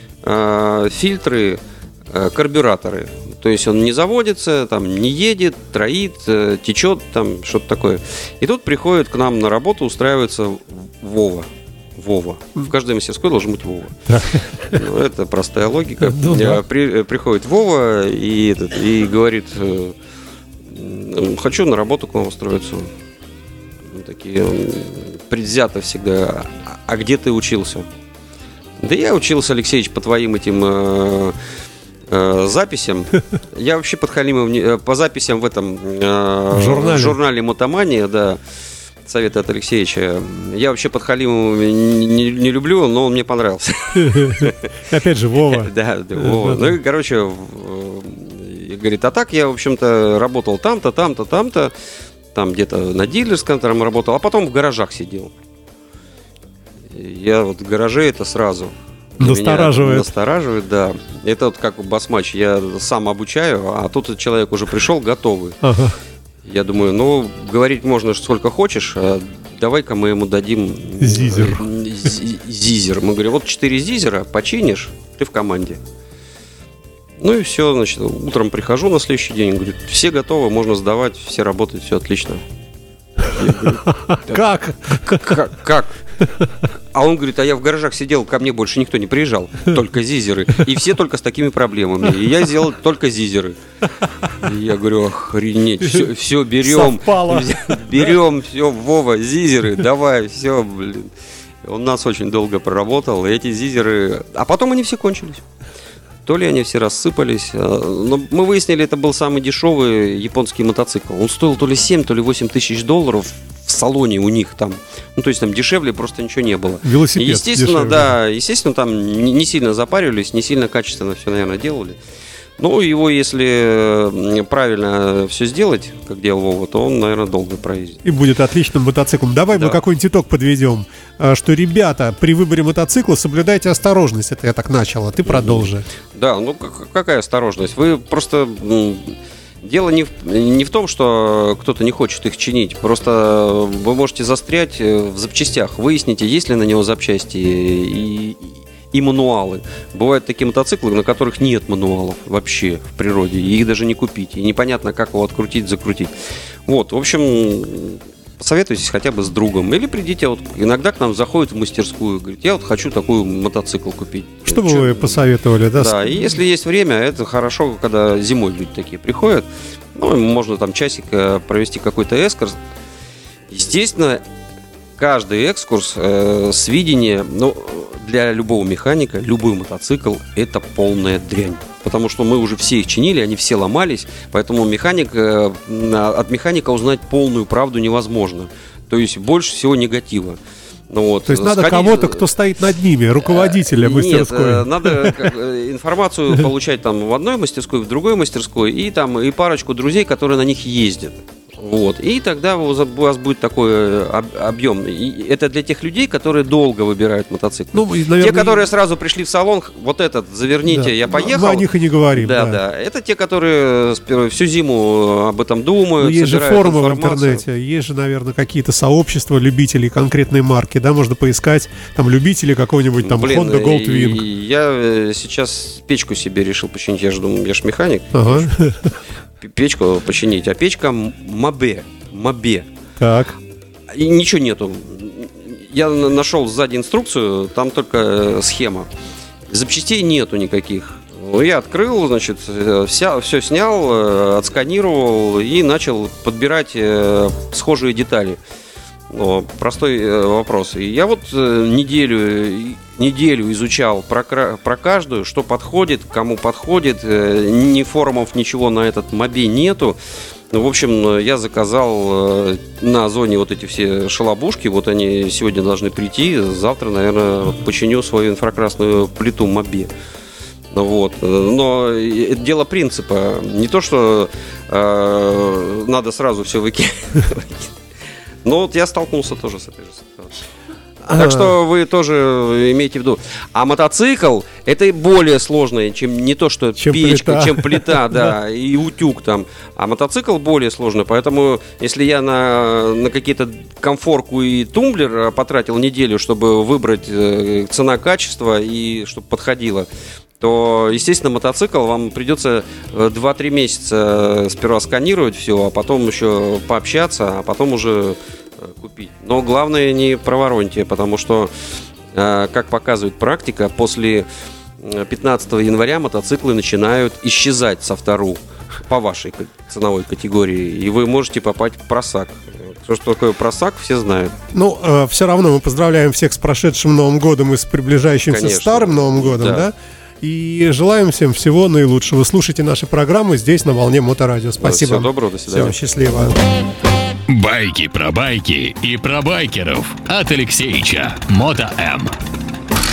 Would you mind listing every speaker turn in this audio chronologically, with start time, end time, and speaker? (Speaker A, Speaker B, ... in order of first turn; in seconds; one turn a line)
Speaker A: 0.2-14.0
Speaker B: 14.1-14.8
Speaker A: 14.6-19.9
Speaker B: 16.0-16.6
Speaker A: 20.7-22.9
Speaker A: 23.9-27.9
Speaker A: 28.8-31.4
Speaker A: 32.1-38.4
Speaker B: 36.5-37.2
Speaker A: 39.0-44.7
Speaker B: 43.9-46.8
Speaker A: 45.5-51.7
Speaker A: 52.3-55.3
Speaker A: 56.9-65.6
Speaker B: 59.2-60.1
Speaker B: 65.6-66.0
Speaker A: 66.4-75.8
Speaker B: 71.0-71.6
Speaker A: 77.2-82.4
Speaker A: 83.2-86.0
Speaker B: 83.9-85.4
Speaker A: 86.9-93.6
Speaker A: 94.3-101.1
Speaker B: 95.8-96.1
Speaker B: 96.6-98.1
Speaker A: 101.6-105.4
Speaker A: 106.2-122.0
Speaker B: 116.8-118.1
Speaker A: 122.6-128.0
Speaker B: 128.0-135.8
Speaker A: 135.2-156.1
Speaker A: 156.7-165.2
Speaker B: 164.5-166.2
Speaker A: 165.7-172.6
Speaker A: 173.5-174.2
Speaker A: 175.0-190.4
Speaker A: 190.9-192.2
Speaker B: 191.2-195.3
Speaker A: 193.2-217.4
Speaker B: 207.7-208.6
Speaker B: 210.7-212.6
Speaker B: 216.0-224.2
Speaker A: 223.0-228.5
Speaker B: 228.1-228.9
Speaker A: 229.4-232.7
Speaker B: 233.0-233.3
Speaker A: 233.9-238.9
Speaker A: 239.5-248.4
Speaker A: 249.1-260.0
Speaker A: 260.5-269.9
Speaker A: 270.7-277.8
Speaker A: 278.4-280.3
Speaker B: 281.1-281.5
Speaker A: 281.1-299.9
Speaker B: 286.8-288.3
Speaker A: 300.4-311.5
Speaker A: 312.1-314.2
Speaker A: 314.8-324.3
Speaker B: 324.5-336.4
Speaker A: 328.3-329.7
Speaker A: 334.6-335.8
Speaker C: 337.3-342.1